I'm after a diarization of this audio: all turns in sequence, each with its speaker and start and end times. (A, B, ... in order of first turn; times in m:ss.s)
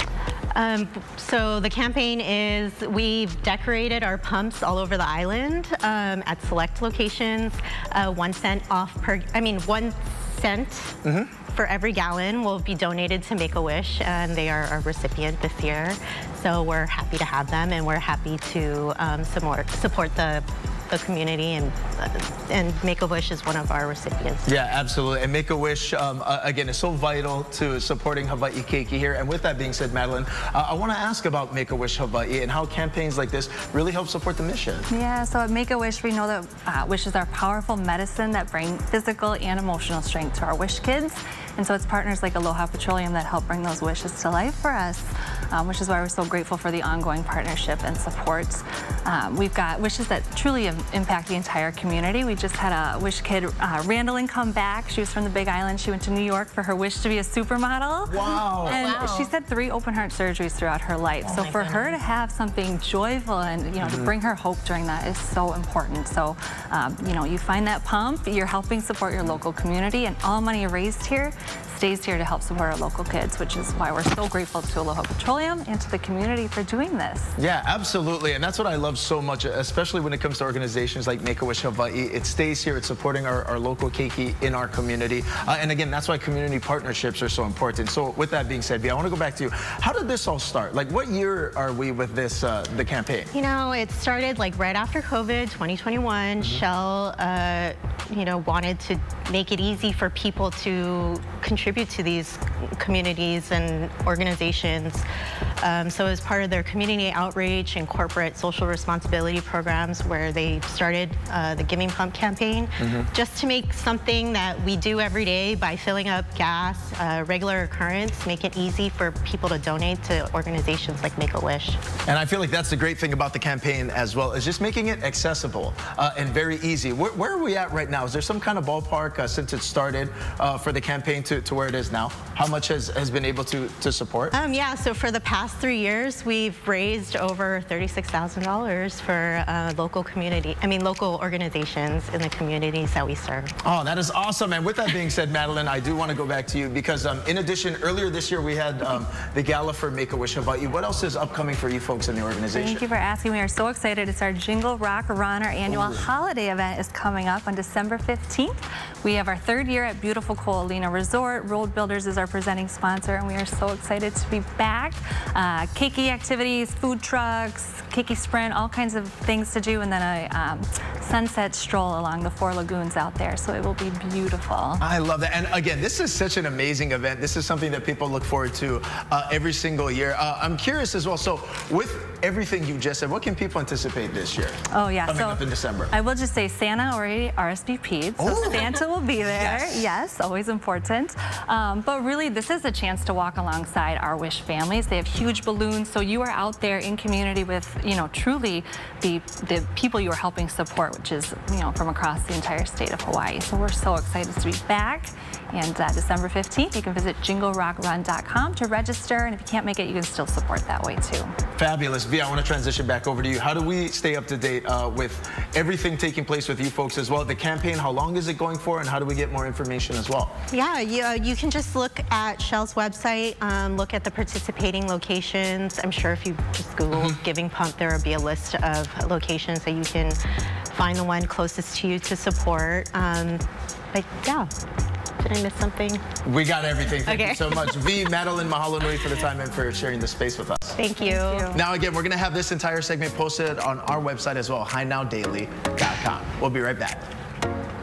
0:00.5-0:24.5 A
0:11.0-0:11.3 B
0:24.4-0:34.9 B
0:34.9-1:17.3 C
0:58.0-0:59.0 B
0:58.8-0:59.3 A
1:01.2-1:01.8 B
1:03.8-1:04.1 B
1:17.4-1:33.3 B
1:33.3-1:45.0 A
1:45.6-2:01.8 A
1:52.8-1:53.1 B
2:02.0-2:14.3 B
2:14.3-2:23.6 A
2:23.6-2:32.8 B
2:32.5-2:54.8 C
2:35.6-2:36.0 B
2:54.8-3:05.9 B
3:04.7-3:31.3 C
3:08.2-3:09.8 B
3:31.6-3:40.3 B
3:40.5-3:50.2 A
3:50.7-3:53.4 A
3:53.9-3:54.5 A
3:55.2-3:56.0 A
3:56.2-4:00.8 B
3:57.0-3:57.8 A
4:00.8-4:01.5 A
4:01.0-4:01.6 C
4:01.5-4:07.1 B